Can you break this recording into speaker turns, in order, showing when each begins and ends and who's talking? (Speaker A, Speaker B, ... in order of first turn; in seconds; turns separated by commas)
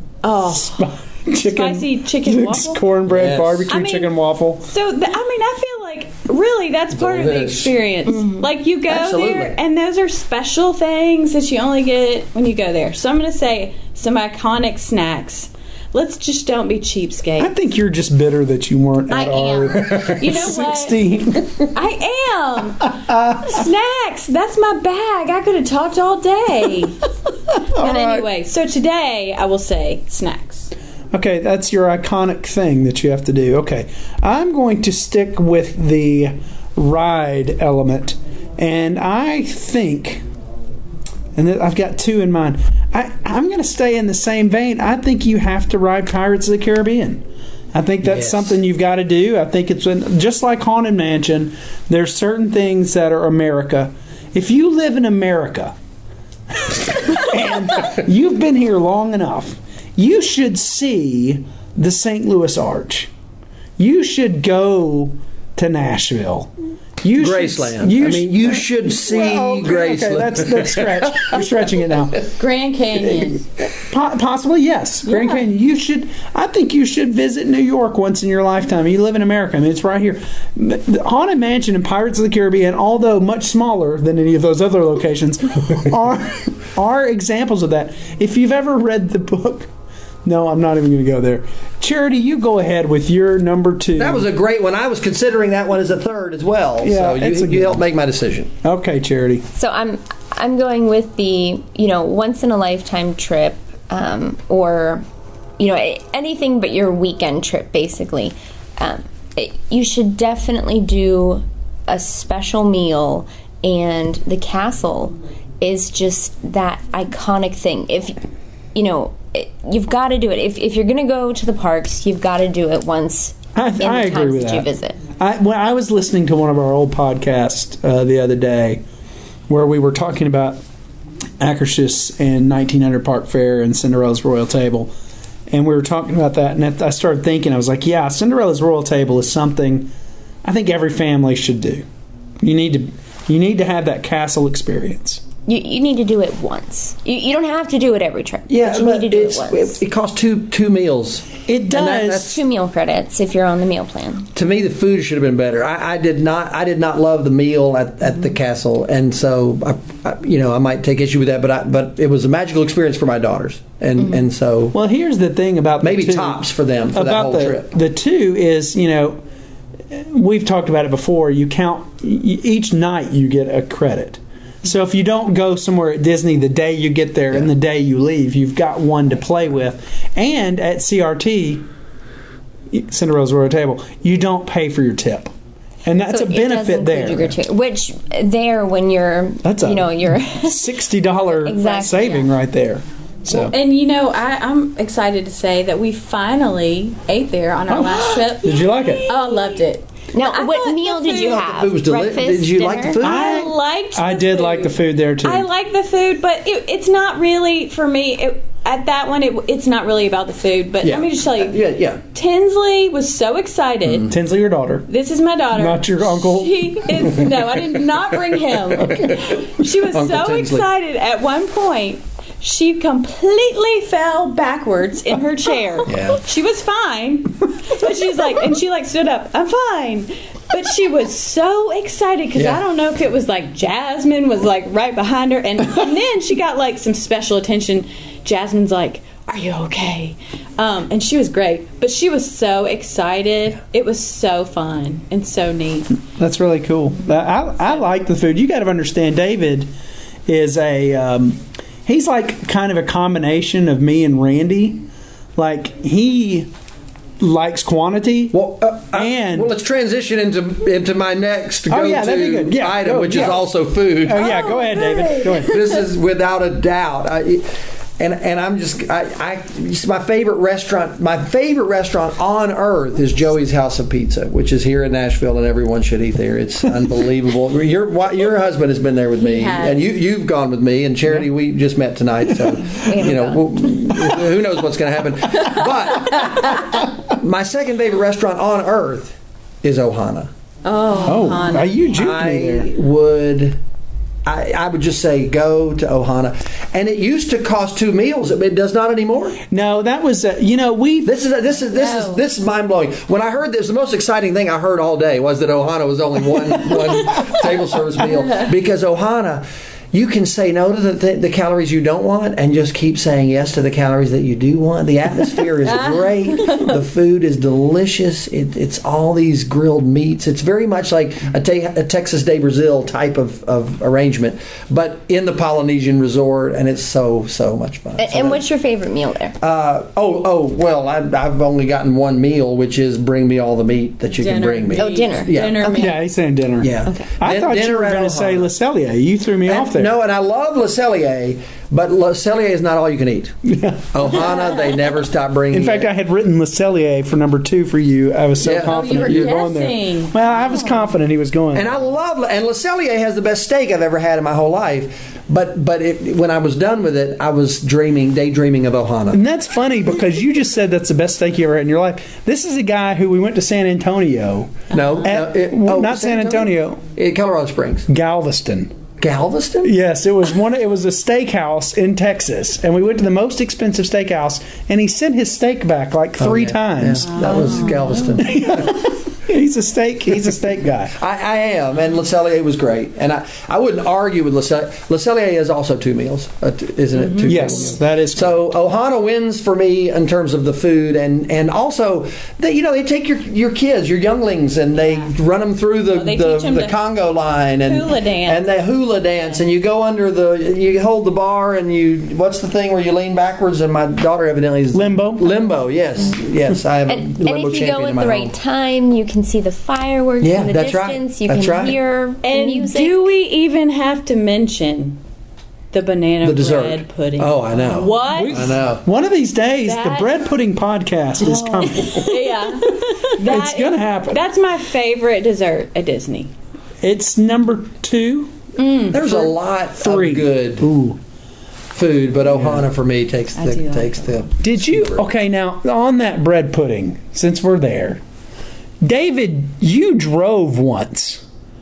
Speaker A: 0.2-2.9, Speaker B: 0.5-4.7, Speaker C: 3.1-3.7, Speaker A: 3.7-4.1, Speaker A: 4.6-17.6, Speaker C: 6.9-7.7, Speaker D: 8.1-8.4, Speaker C: 8.9-9.5, Speaker B: 17.4-21.7, Speaker A: 19.1-21.0, Speaker A: 21.7-27.0, Speaker B: 23.1-23.6, Speaker A: 27.7-30.7, Speaker B: 27.7-28.3, Speaker B: 31.1-40.2, Speaker B: 41.4-55.8, Speaker C: 48.0-48.6, Speaker B: 56.6-63.1, Speaker B: 63.8-66.5, Speaker B: 67.0-72.2, Speaker C: 67.2-71.3, Speaker A: 72.4-73.4, Speaker B: 73.8-89.7, Speaker A: 75.0-75.4, Speaker B: 90.2-94.3, Speaker C: 94.0-98.5, Speaker B: 96.8-97.8, Speaker B: 98.6-99.5, Speaker D: 99.5-105.0, Speaker D: 105.6-118.2, Speaker D: 118.7-125.0, Speaker B: 123.5-128.8, Speaker B: 129.5-130.6, Speaker B: 131.4-134.9, Speaker B: 135.5-139.9, Speaker B: 140.4-141.8, Speaker B: 142.4-145.2, Speaker D: 145.4-149.8, Speaker C: 148.5-152.4, Speaker B: 151.4-152.3, Speaker D: 152.2-154.3, Speaker C: 154.3-164.8, Speaker B: 164.7-169.2, Speaker C: 165.8-167.7, Speaker B: 169.9-181.7, Speaker B: 182.7-185.3, Speaker B: 185.8-187.4, Speaker D: 186.0-190.8, Speaker B: 189.4-193.5, Speaker D: 191.3-192.3, Speaker A: 193.3-198.5, Speaker B: 197.7-199.1, Speaker A: 199.0-201.5, Speaker D: 200.1-203.0, Speaker C: 201.3-203.4, Speaker B: 203.0-205.5, Speaker A: 203.0-211.6, Speaker C: 210.8-212.0, Speaker A: 212.1-214.1, Speaker C: 213.9-214.1, Speaker B: 214.1-214.9, Speaker A: 214.9-245.9, Speaker B: 215.5-217.3, Speaker C: 219.9-220.7, Speaker C: 225.9-226.2, Speaker C: 232.3-232.6, Speaker B: 246.1-249.7, Speaker B: 250.2-256.5, Speaker B: 257.2-258.4, Speaker C: 258.3-264.3, Speaker B: 258.9-259.5, Speaker B: 261.7-263.5, Speaker B: 264.0-265.6, Speaker C: 265.4-290.3, Speaker A: 279.2-279.9, Speaker D: 282.7-283.4, Speaker A: 290.6-291.8, Speaker B: 291.1-292.7, Speaker C: 291.9-293.6, Speaker C: 294.2-299.4, Speaker B: 299.5-301.1, Speaker C: 301.0-328.4, Speaker D: 301.8-302.1, Speaker A: 315.8-316.7, Speaker D: 328.0-329.3, Speaker C: 329.4-335.7, Speaker A: 334.1-336.0, Speaker D: 334.7-336.0, Speaker B: 335.8-339.9, Speaker C: 336.6-338.5, Speaker C: 339.4-343.4, Speaker B: 343.4-344.3, Speaker C: 343.9-345.9, Speaker B: 345.5-351.7, Speaker C: 348.4-349.3, Speaker A: 348.6-350.2, Speaker C: 351.5-359.2, Speaker B: 359.1-366.8, Speaker C: 364.7-367.9, Speaker B: 367.9-368.8, Speaker C: 369.0-369.7, Speaker B: 369.6-377.1, Speaker C: 376.2-378.8, Speaker A: 377.0-377.9, Speaker D: 377.4-378.2, Speaker B: 378.2-380.9, Speaker C: 380.9-408.3, Speaker A: 387.0-387.3, Speaker B: 387.2-388.5, Speaker A: 394.8-395.1, Speaker A: 395.9-396.8, Speaker A: 397.6-398.4, Speaker B: 404.7-405.2, Speaker D: 406.9-413.1, Speaker C: 410.2-411.8, Speaker A: 412.2-415.0, Speaker A: 415.7-418.5, Speaker C: 416.2-418.8, Speaker B: 418.1-422.2, Speaker A: 419.6-420.1, Speaker A: 421.3-426.3, Speaker B: 422.7-424.2, Speaker B: 426.8-428.3, Speaker A: 428.6-429.2, Speaker C: 428.9-430.7, Speaker B: 429.8-431.0, Speaker C: 431.7-435.0, Speaker B: 432.3-432.6, Speaker B: 434.4-438.0, Speaker B: 438.8-441.2